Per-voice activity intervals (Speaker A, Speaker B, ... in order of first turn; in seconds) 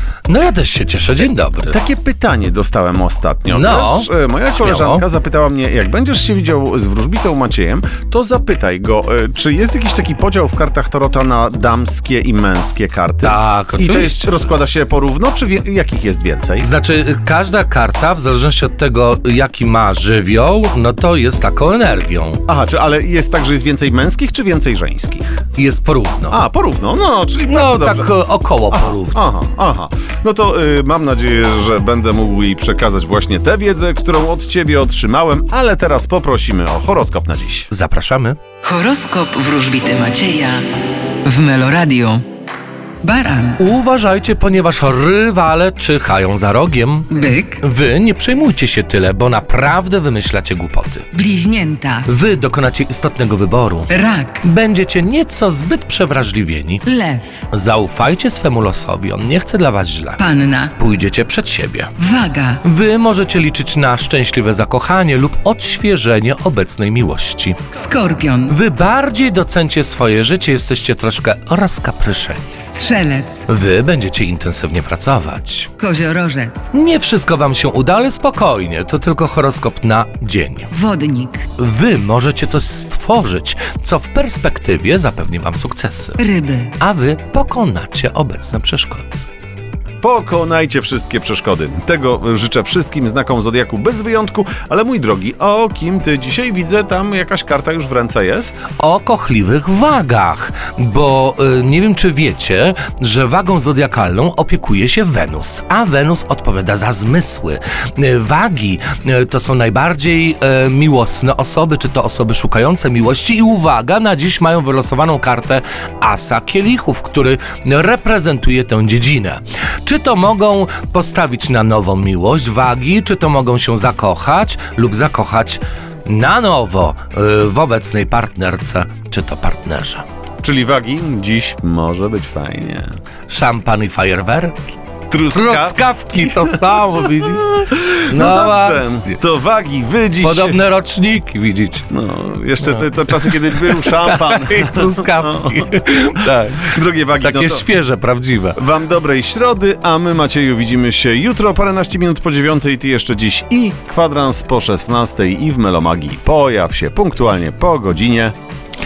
Speaker A: 0.3-1.8, 3.5-5.0, 13.2-14.4, 16.6-22.4, 25.6-26.4, 27.4-29.2, 37.7-38.4, 43.6-51.1, 52.1-56.9, 57.5-60.2, 60.8-61.9, 62.6-67.6, 68.5-72.6, 73.5-75.7, 76.7-80.7, 81.6-86.2, 86.8-89.0, 98.8-130.0, 133.3-134.6, 135.3-137.5, 138.1-139.2, 140.2-141.9, 142.6-148.6
Speaker B: 1.7-16.7, 22.5-25.5, 26.3-28.1, 28.7-37.7, 90.0-98.7, 130.4-132.9, 135.1-140.6, 141.9-145.8, 146.6-147.7, 148.6-158.3
Speaker C: 38.6-42.2, 43.0-43.6, 47.1-47.6, 51.1-52.1, 53.9-54.5, 56.9-57.5, 60.2-60.8, 62.0-62.6, 67.7-68.6, 72.6-73.5, 75.8-76.7, 80.7-81.5, 86.2-86.8